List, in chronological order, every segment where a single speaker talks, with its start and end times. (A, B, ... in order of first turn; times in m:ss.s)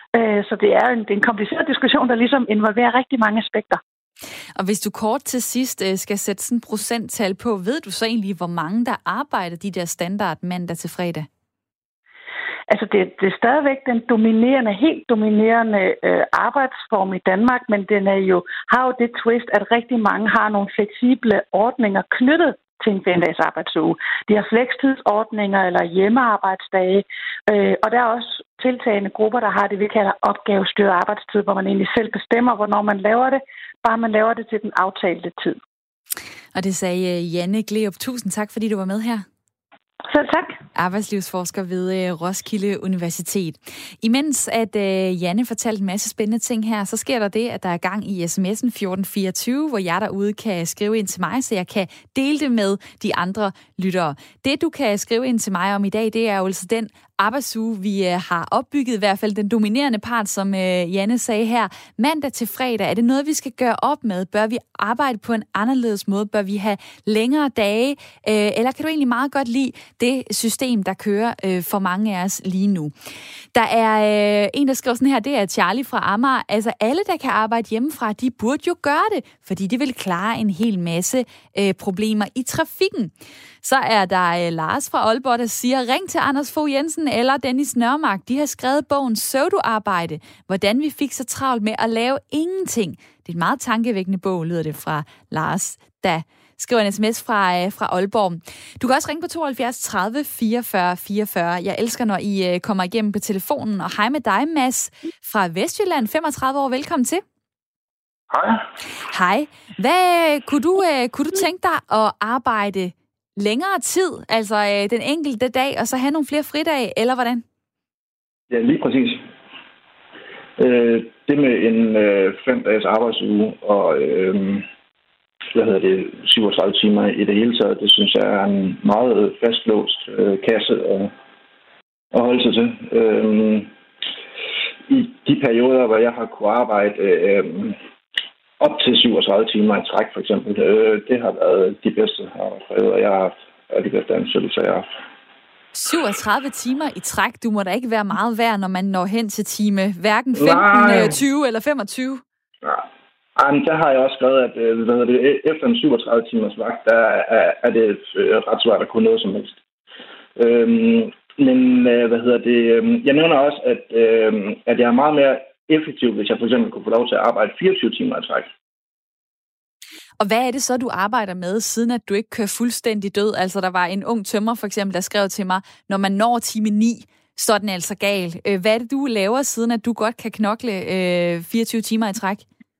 0:00.1-0:03.8 A
0:04.6-0:11.3 B
0:12.7-0:35.6 A
0:36.6-0:39.2 B
0:40.1-0:40.6 A
0:40.7-1:12.9 B
1:13.6-1:47.2 B
1:48.3-1:48.6 C
1:49.1-1:57.4 B
1:58.5-1:59.2 C
2:00.6-2:04.6 C
2:05.5-2:11.1 C
2:12.1-2:13.7 C
2:14.9-2:17.8 C
2:18.6-2:24.9 C
2:25.7-2:32.2 B
2:30.4-2:31.2 C
2:32.6-2:39.6 C
2:40.4-2:48.5 C
2:50.2-3:02.4 B